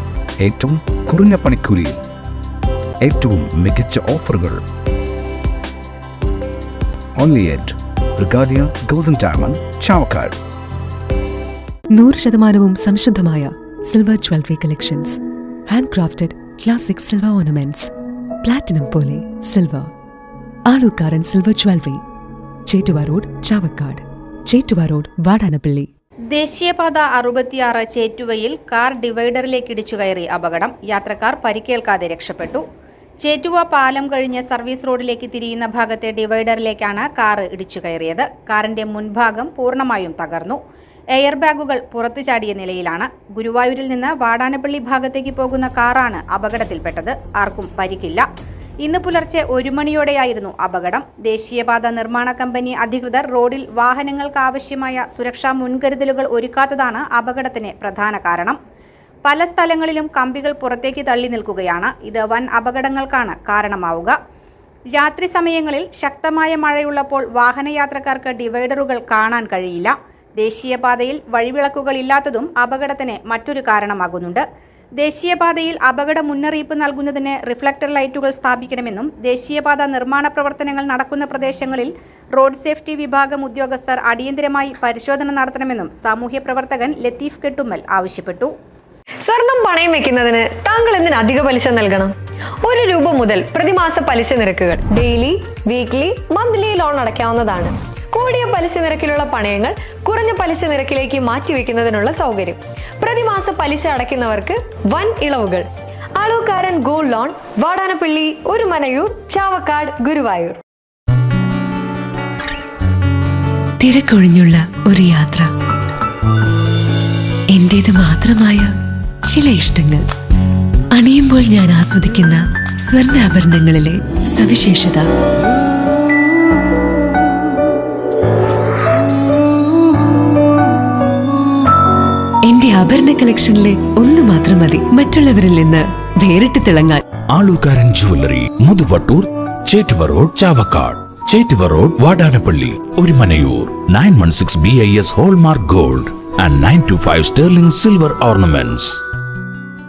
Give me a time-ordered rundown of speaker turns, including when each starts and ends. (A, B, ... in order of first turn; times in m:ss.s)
0:00.4-0:02.0 A
0:03.0-0:04.6 A
0:07.2-0:10.4 A
0:11.9-0:17.9 B
0:18.4-0:19.9 B
0:20.7-0:22.0 B
0:22.7-0:25.9 B
0:26.3-0:32.6 C
0:33.2-0:40.6 C
0:41.1-0:48.3 C
0:48.8-0:58.6 C
0:59.2-1:04.2 C
1:04.9-1:14.4 C
1:15.0-1:28.5 C
1:29.2-1:45.6 D
1:46.2-1:50.6 D
1:53.8-1:55.5 B
1:57.5-1:58.7 B
1:59.3-2:00.1 B
2:00.9-2:05.1 B
2:12.5-2:17.0 B
2:17.3-2:29.0 E